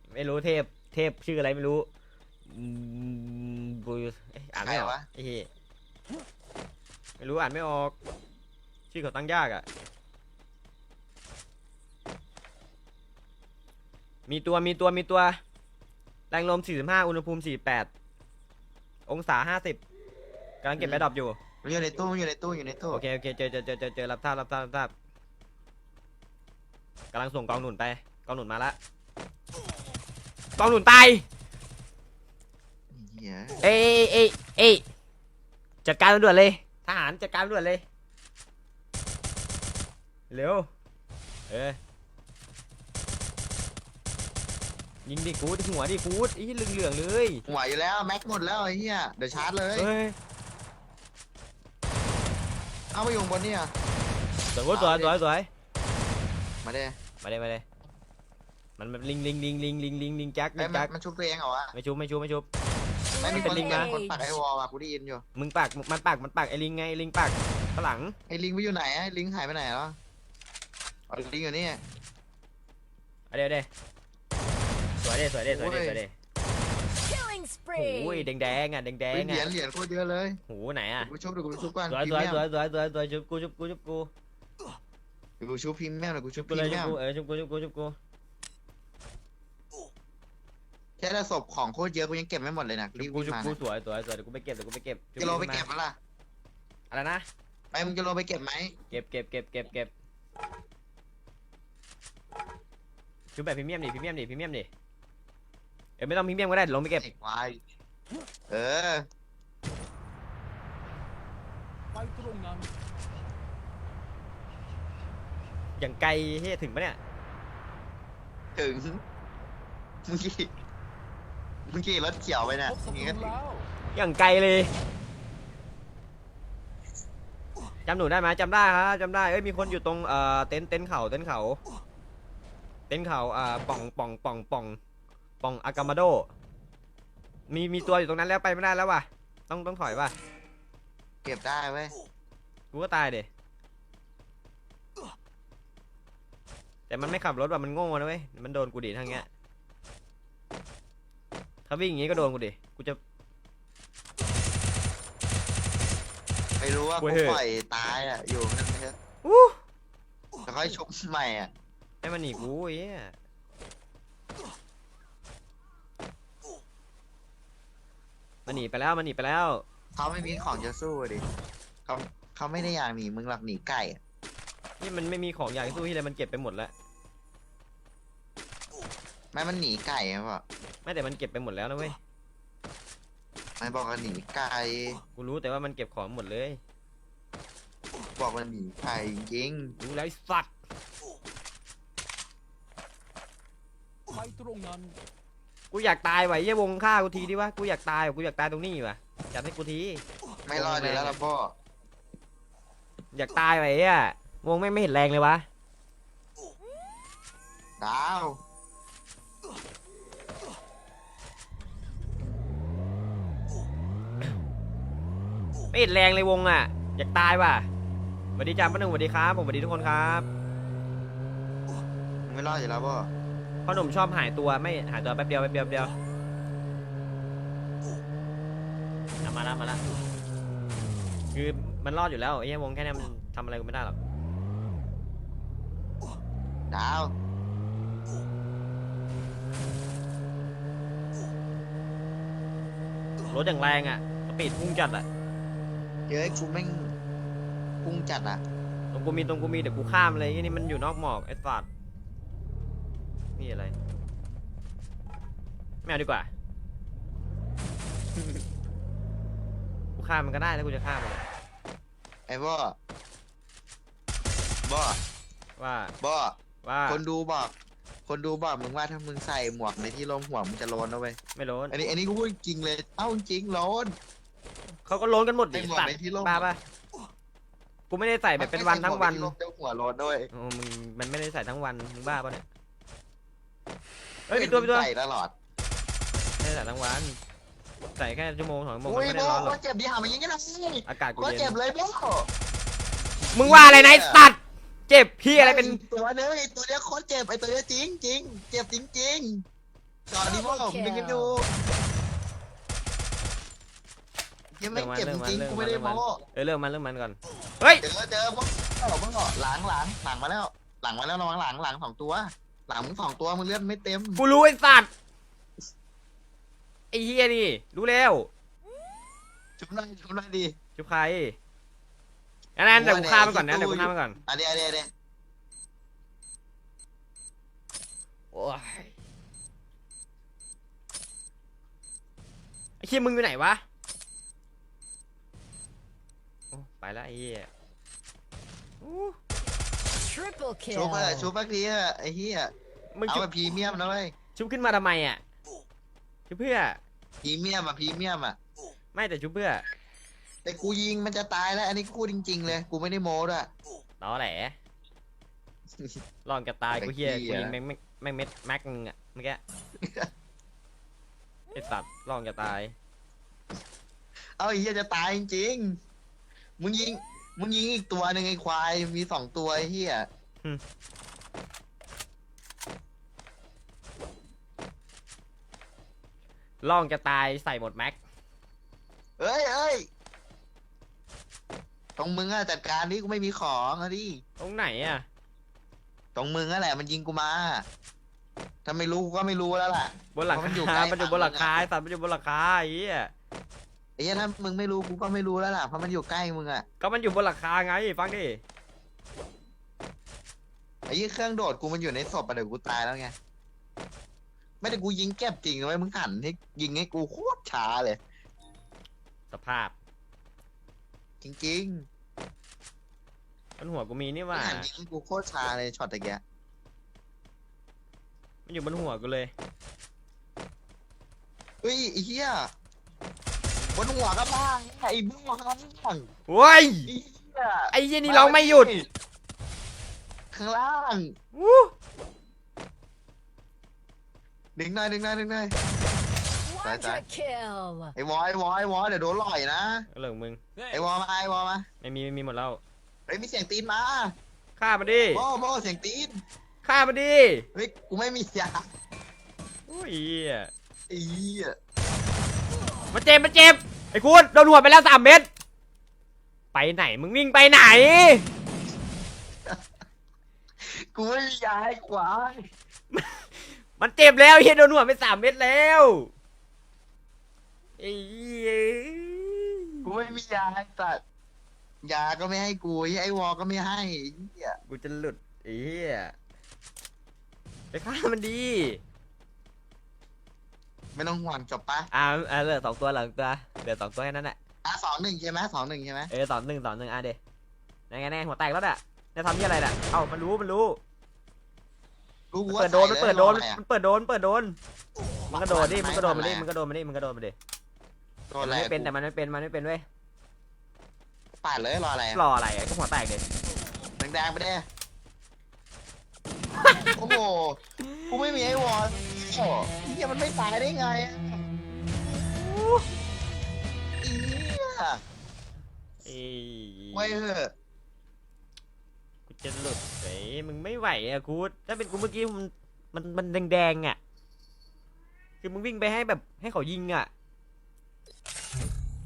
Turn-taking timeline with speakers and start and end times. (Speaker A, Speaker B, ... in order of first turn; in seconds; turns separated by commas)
Speaker A: 0.1-1.9, Speaker A: 2.5-5.5, Speaker B: 4.6-5.0, Speaker A: 7.2-7.9, Speaker A: 8.9-9.7, Speaker A: 14.3-15.4, Speaker A: 16.3-17.9, Speaker A: 19.1-19.8, Speaker A: 20.6-21.4, Speaker B: 20.8-21.1, Speaker B: 21.6-23.0, Speaker A: 22.9-24.9, Speaker A: 27.1-28.8, Speaker A: 30.6-31.2, Speaker B: 32.9-33.6, Speaker A: 33.6-34.8, Speaker A: 35.8-37.8, Speaker A: 40.3-40.7, Speaker A: 41.5-41.8, Speaker A: 45.0-47.4, Speaker B: 47.5-49.9, Speaker A: 49.7-50.1, Speaker B: 52.9-53.7, Speaker A: 54.5-55.5, Speaker B: 54.7-55.2, Speaker B: 56.6-56.9, Speaker A: 57.2-57.6, Speaker A: 58.8-60.9, Speaker B: 60.6-61.7, Speaker A: 61.7-62.5, Speaker C: 63.1-64.3, Speaker B: 63.2-65.2, Speaker A: 63.2-63.9, Speaker A: 65.3-68.1, Speaker B: 68.3-70.0, Speaker B: 71.1-71.8, Speaker A: 73.3-73.7, Speaker A: 75.0-76.1, Speaker B: 75.5-76.0, Speaker C: 77.0-78.3, Speaker A: 77.8-79.5, Speaker B: 79.1-80.4, Speaker A: 80.5-81.1, Speaker B: 81.0-82.4, Speaker A: 81.9-84.1, Speaker B: 85.4-87.0, Speaker A: 86.4-88.0, Speaker B: 91.0-93.6, Speaker A: 93.0-95.7, Speaker B: 95.2-96.0, Speaker A: 96.9-97.2, Speaker B: 97.7-98.7, Speaker A: 98.9-99.9, Speaker A: 103.3-104.7, Speaker A: 106.0-107.0, Speaker B: 107.0-107.6, Speaker B: 108.5-109.0, Speaker D: 112.0-112.7, Speaker A: 115.8-117.0, Speaker B: 118.5-119.0, Speaker B: 120.0-120.5, Speaker B: 121.7-123.3, Speaker D: 123.2-123.6, Speaker A: 123.9-124.7, Speaker A: 127.9-131.6, Speaker A: 132.9-134.8, Speaker A: 135.4-136.3, Speaker A: 137.5-140.1, Speaker B: 141.2-141.9, Speaker A: 142.7-143.3, Speaker A: 146.9-149.3, Speaker A: 151.7-153.0, Speaker B: 156.6-159.0, Speaker A: 157.0-157.4, Speaker A: 159.2-159.6, Speaker B: 160.4-161.5, Speaker A: 162.0-163.1, Speaker A: 168.4-169.6, Speaker B: 169.9-171.2, Speaker B: 171.8-174.0, Speaker A: 174.8-176.7, Speaker B: 179.3-180.4, Speaker A: 180.8-182.0, Speaker B: 183.6-185.0, Speaker A: 185.2-186.6, Speaker B: 188.2-189.8, Speaker A: 189.8-190.5, Speaker D: 194.1-194.9, Speaker A: 195.7-201.2, Speaker B: 200.4-201.5, Speaker A: 203.1-205.4, Speaker B: 207.8-208.4, Speaker A: 215.7-217.7, Speaker A: 218.3-220.3, Speaker B: 222.2-223.1, Speaker A: 223.7-225.9, Speaker A: 229.2-229.8, Speaker A: 231.3-234.0, Speaker B: 236.7-237.1, Speaker A: 243.3-245.1, Speaker B: 246.1-246.9, Speaker B: 247.8-248.4, Speaker A: 248.9-251.7, Speaker A: 253.4-253.7, Speaker A: 255.8-256.3, Speaker B: 258.2-258.4, Speaker A: 260.0-261.2, Speaker B: 262.3-262.8, Speaker B: 264.6-265.0, Speaker A: 265.6-265.9, Speaker B: 266.0-267.5, Speaker A: 266.6-267.0, Speaker B: 268.1-271.2, Speaker A: 271.4-271.7, Speaker B: 271.7-273.9, Speaker A: 274.9-276.6, Speaker B: 275.5-276.5, Speaker A: 277.9-279.3, Speaker B: 278.4-280.3, Speaker A: 280.3-282.4, Speaker A: 284.3-284.9, Speaker B: 284.3-285.3, Speaker A: 286.4-287.2, Speaker A: 288.0-289.6, Speaker B: 288.8-292.3, Speaker A: 290.9-291.6, Speaker B: 293.2-294.2, Speaker A: 293.3-294.4, Speaker A: 294.9-295.8, Speaker B: 295.3-299.4, Speaker B: 300.1-301.4, Speaker C: 300.2-301.4, Speaker B: 304.6-306.2, Speaker A: 304.7-307.8, Speaker B: 307.8-314.2, Speaker A: 314.2-314.9, Speaker A: 316.9-318.3, Speaker B: 319.6-320.5, Speaker A: 320.8-321.4, Speaker A: 322.6-324.2, Speaker B: 322.7-324.9, Speaker A: 328.3-328.9, Speaker A: 332.8-333.6, Speaker A: 336.5-337.5, Speaker A: 338.8-339.2, Speaker C: 340.0-341.3, Speaker B: 340.7-342.5, Speaker A: 342.9-343.3, Speaker B: 343.1-344.1, Speaker A: 344.3-345.2, Speaker A: 346.3-346.8, Speaker B: 347.2-348.4, Speaker A: 348.9-349.6, Speaker B: 350.4-353.5, Speaker A: 354.0-354.6, Speaker A: 356.2-359.4, Speaker B: 356.7-357.6, Speaker B: 359.8-360.1, Speaker A: 361.5-362.7, Speaker B: 364.4-365.8, Speaker B: 366.6-370.1, Speaker A: 376.6-378.0, Speaker B: 379.2-379.9, Speaker B: 382.0-384.2, Speaker A: 384.4-385.1, Speaker B: 386.1-387.6, Speaker B: 388.6-391.6, Speaker A: 390.1-393.1, Speaker B: 394.0-396.6, Speaker A: 396.8-398.4, Speaker B: 400.9-403.1, Speaker B: 404.6-408.0, Speaker A: 409.3-409.7, Speaker B: 411.2-411.9, Speaker A: 413.6-414.7, Speaker B: 414.3-416.2, Speaker A: 418.4-419.3, Speaker B: 421.6-422.5, Speaker B: 423.6-426.1, Speaker A: 426.3-426.9, Speaker B: 426.9-428.9, Speaker A: 427.7-428.7, Speaker B: 430.3-431.1, Speaker A: 431.3-431.7, Speaker B: 434.6-435.5, Speaker C: 436.4-437.9, Speaker B: 436.6-437.0, Speaker B: 437.9-439.9, Speaker A: 439.9-440.4, Speaker B: 440.7-441.6, Speaker A: 441.8-442.6, Speaker B: 443.1-444.1, Speaker A: 444.6-445.2, Speaker B: 445.1-446.1, Speaker A: 446.6-447.5, Speaker B: 447.5-448.7, Speaker A: 449.7-450.5, Speaker B: 450.9-451.5, Speaker A: 452.9-455.3, Speaker A: 456.5-458.3, Speaker B: 460.6-462.4, Speaker A: 462.9-466.1, Speaker A: 467.8-469.9, Speaker B: 469.8-471.0, Speaker B: 471.8-474.6, Speaker A: 474.6-476.1, Speaker A: 477.7-478.8, Speaker B: 480.9-481.9, Speaker A: 481.9-484.4, Speaker B: 484.6-486.1, Speaker A: 486.1-487.2, Speaker A: 487.9-490.8, Speaker B: 492.3-493.6, Speaker A: 492.5-494.6, Speaker B: 495.3-496.5, Speaker A: 495.3-497.3, Speaker B: 498.3-498.9, Speaker A: 498.4-499.8, Speaker B: 501.4-502.2, Speaker A: 502.1-503.2, Speaker B: 504.0-504.6, Speaker A: 506.6-507.0, Speaker B: 506.9-511.4, Speaker A: 507.8-508.4, Speaker A: 512.0-512.9, Speaker B: 514.0-515.0, Speaker A: 516.0-517.2, Speaker B: 516.9-517.5, Speaker A: 519.3-524.0, Speaker A: 525.4-527.1